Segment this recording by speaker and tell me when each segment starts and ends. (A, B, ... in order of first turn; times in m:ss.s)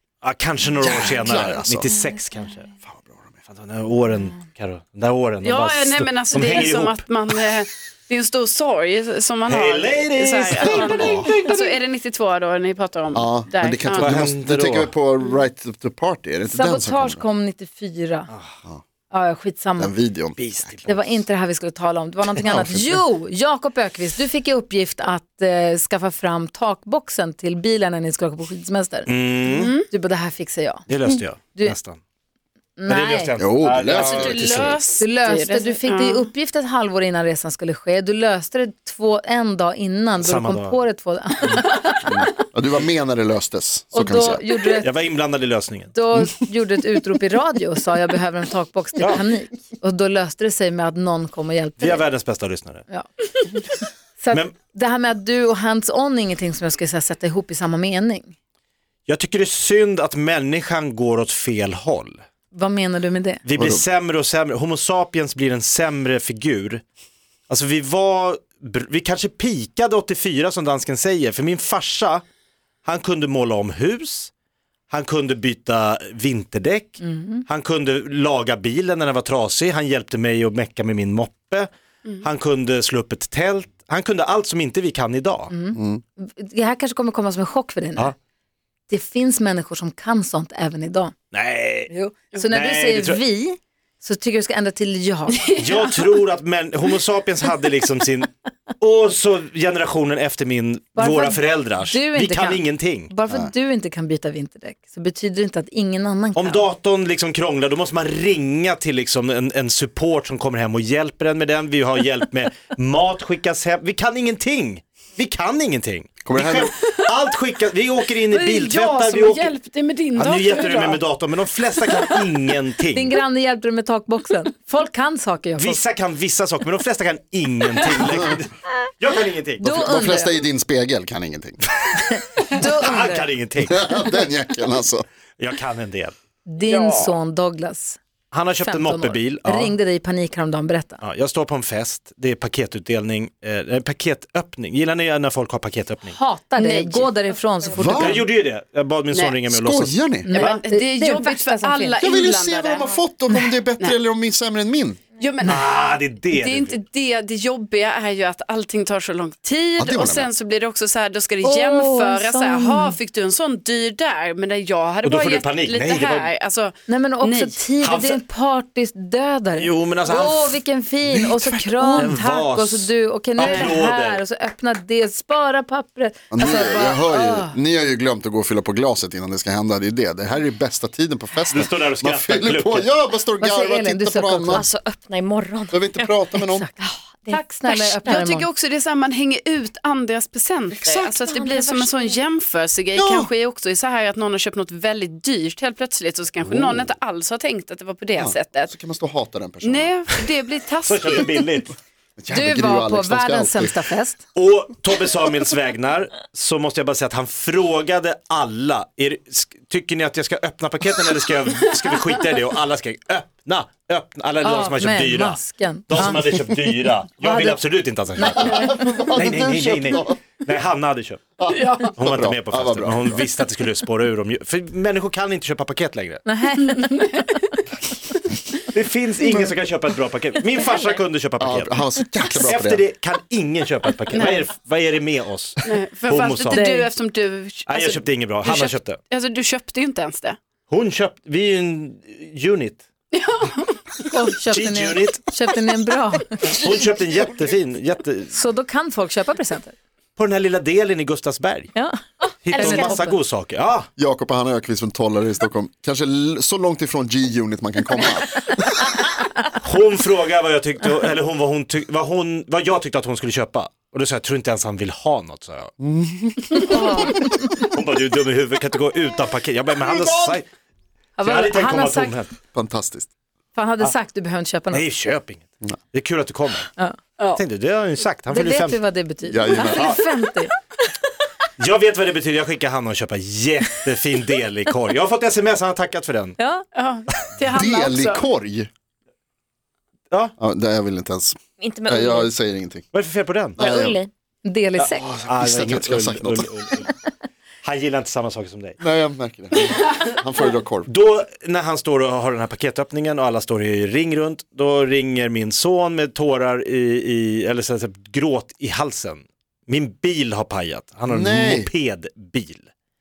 0:00.2-0:02.7 A
0:00.8-0:01.8 B
0:02.9-0:03.2 B
0:03.5-0:07.0 A
0:05.4-0:14.1 C
0:09.4-0:11.3 A
0:10.6-0:11.3 B
0:13.1-0:17.2 B
0:13.9-0:14.9 A
0:16.5-0:18.3 D
0:18.3-0:18.6 A
0:19.1-0:19.9 D
0:19.8-0:20.5 B
0:20.4-0:21.2 A
0:20.8-0:31.8 D
0:22.4-0:23.0 B
0:29.1-0:29.7 A
0:29.5-0:29.9 C
0:30.9-0:32.0 A
0:32.8-0:33.3 D
0:32.9-0:34.8 A
0:33.4-0:34.8 B
0:33.9-0:36.3 C
0:35.0-0:42.3 D
0:40.2-0:40.8 A
0:42.0-0:44.4 B
0:43.9-0:44.9 D
0:44.8-0:45.9 A
0:45.9-0:52.0 D
0:51.8-0:52.8 A
0:54.2-0:58.3 D
0:59.1-1:02.2 A
1:02.5-1:03.4 D
1:03.4-1:06.8 A
1:03.6-1:03.8 B
1:07.5-1:12.2 A
1:12.8-1:14.3 A
1:14.9-1:21.7 A
1:17.0-1:17.4 D
1:22.2-1:25.5 A
1:25.5-1:28.1 D
1:25.7-1:26.0 B
1:28.9-1:31.1 D
1:31.3-1:31.9 A
1:31.9-1:35.5 D
1:32.5-1:33.2 A
1:35.4-1:35.8 C
1:35.6-1:43.1 A
1:41.0-1:46.6 D
1:46.3-1:59.5 A
1:56.2-1:56.7 B
1:58.2-2:01.0 C
2:00.1-2:03.2 A
2:02.9-2:05.8 D
2:05.6-2:09.8 A
2:09.6-2:10.4 D
2:09.6-2:11.6 B
2:11.8-2:14.0 A
2:12.0-2:13.3 D
2:13.6-2:15.0 B
2:15.4-2:16.1 A
2:16.4-2:18.0 D
2:16.6-2:17.1 C
2:18.3-2:19.8 A
2:18.6-2:21.0 D
2:21.0-2:26.2 A
2:26.1-2:28.2 D
2:26.6-2:27.1 C
2:27.7-2:28.2 B
2:27.9-2:29.9 A
2:29.1-2:29.4 C
2:29.5-2:30.3 B
2:30.2-2:32.0 D
2:30.3-2:33.0 C
2:32.0-2:35.0 B
2:35.2-2:47.6 C
2:35.4-2:36.8 A
2:39.8-2:40.3 B
2:41.4-2:42.9 D
2:45.0-2:46.3 A
2:46.9-2:57.6 D
2:47.8-2:48.2 A
2:49.6-2:50.6 A
2:51.1-2:52.1 B
2:51.9-2:54.2 A
2:53.4-2:53.8 C
2:56.3-3:04.6 B
3:01.5-3:02.9 A
3:03.4-3:04.6 D
3:04.5-3:06.1 E
3:05.7-3:06.7 B
3:06.8-3:07.5 E
3:07.3-3:08.4 D
3:07.6-3:18.7 C
3:08.0-3:08.4 E
3:10.7-3:12.2 E
3:12.9-3:13.3 B
3:16.4-3:16.9 B
3:18.2-3:20.0 B
3:19.6-3:21.4 C
3:20.8-3:21.7 A
3:22.2-3:23.8 B
3:22.3-3:24.2 D
3:24.3-3:38.6 A
3:34.4-3:36.3 D
3:37.2-3:37.6 D
3:38.2-3:38.8 D
3:38.3-3:40.2 B
3:39.1-3:41.2 A
3:41.4-3:43.2 B
3:41.5-3:41.9 C
3:41.9-3:46.2 A
3:46.2-3:47.3 D
3:48.7-3:56.8 A
3:51.4-3:52.8 B
3:54.1-3:54.5 C
3:55.6-4:00.4 C
3:56.5-3:56.9 D
3:57.6-3:59.0 A
4:00.7-4:02.8 A
4:03.1-4:04.1 C
4:04.1-4:06.6 D
4:04.5-4:05.2 A
4:06.5-4:08.3 A
4:08.3-4:09.8 D
4:10.2-4:11.7 A
4:11.7-4:13.2 D
4:12.4-4:13.9 A
4:12.6-4:13.0 E
4:14.0-4:18.8 B
4:19.6-4:25.7 A
4:25.8-4:27.4 B
4:26.7-4:27.3 D
4:27.6-4:30.5 A
4:29.8-4:30.3 B
4:31.2-4:32.2 D
4:31.2-4:32.3 A
4:32.5-4:33.1 B
4:33.5-4:34.9 D
4:34.7-4:36.7 A
4:37.3-4:38.8 A
4:38.3-4:40.5 D
4:39.3-4:40.0 B
4:39.6-4:40.0 A
4:41.6-4:46.4 A
4:46.4-4:46.6 D
4:46.7-4:48.2 C
4:47.5-4:48.7 B
4:50.4-4:52.8 B
4:51.6-4:52.3 E
4:52.9-4:53.7 A
4:53.6-4:54.0 B
4:53.6-4:54.1 E
4:54.4-4:55.0 D
4:54.8-4:56.6 B
4:55.2-4:56.9 A
4:57.6-4:58.8 A
4:58.8-5:00.9 B
5:00.9-5:12.7 A
5:11.1-5:11.7 B